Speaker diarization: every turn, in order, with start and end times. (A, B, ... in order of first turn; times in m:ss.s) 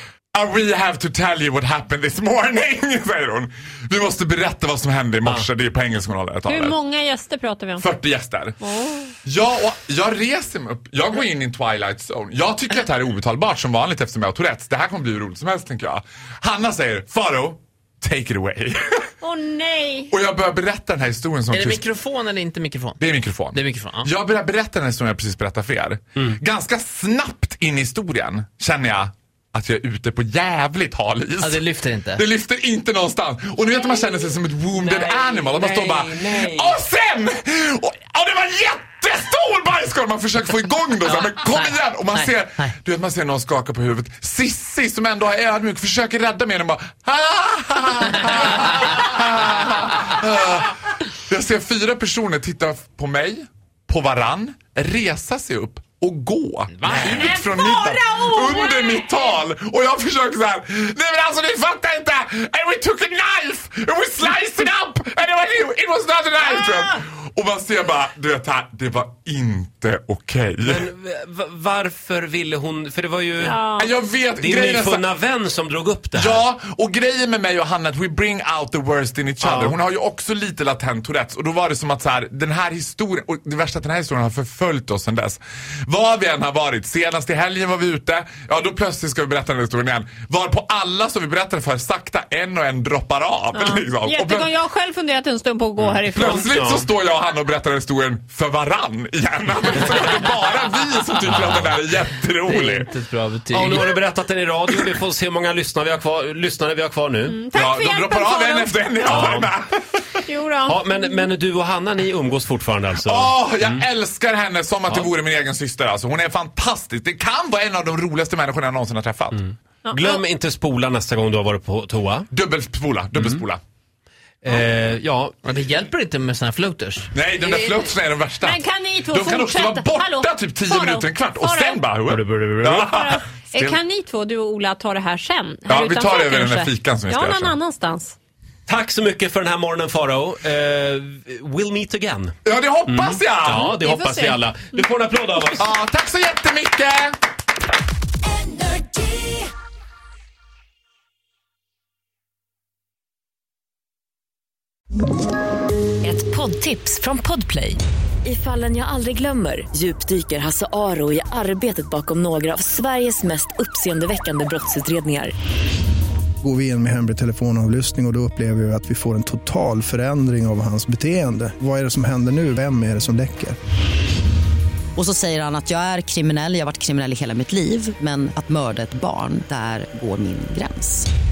0:00.3-0:06.8 A
0:06.4-0:07.8 B
0:07.8-0:08.6 A
0:08.6-0:09.1 B
0:09.2-0:19.0 A
0:19.2-0:20.1 B
0:20.1-0:21.8 A
0:21.5-0:24.1 C
0:23.0-1:10.9 A
0:31.4-0:32.2 C
0:34.9-0:36.7 D
0:41.2-0:42.3 C
0:56.7-0:57.2 C
0:57.0-0:59.4 B
1:10.6-1:13.6 D
1:13.4-1:13.9 B
1:13.8-1:15.1 A
1:14.4-1:16.4 D
1:16.1-1:34.5 A
1:19.4-1:19.8 D
1:33.5-1:36.5 B
1:35.8-1:36.9 D
1:36.1-1:42.9 A
1:42.4-1:43.9 C
1:43.5-1:47.4 D
1:47.2-1:49.5 B
1:47.5-1:50.1 A
1:49.1-1:49.5 D
1:50.2-1:51.3 B
1:50.7-1:53.8 D
1:53.0-1:59.4 A
1:59.4-2:02.3 D
1:59.8-2:00.2 B
2:02.3-2:03.6 A
2:04.4-2:05.4 D
2:05.4-2:07.6 C
2:07.1-2:13.8 A
2:08.4-2:11.8 B
2:12.1-2:12.9 D
2:12.9-2:18.1 B
2:15.7-2:17.6 A
2:18.7-2:22.4 D
2:22.4-2:23.7 A
2:22.9-2:25.6 D
2:23.6-2:24.4 B
2:25.6-2:27.1 A
2:28.4-2:29.3 E
2:36.0-2:45.3 E
2:46.4-2:53.6 F
2:54.9-3:01.1 G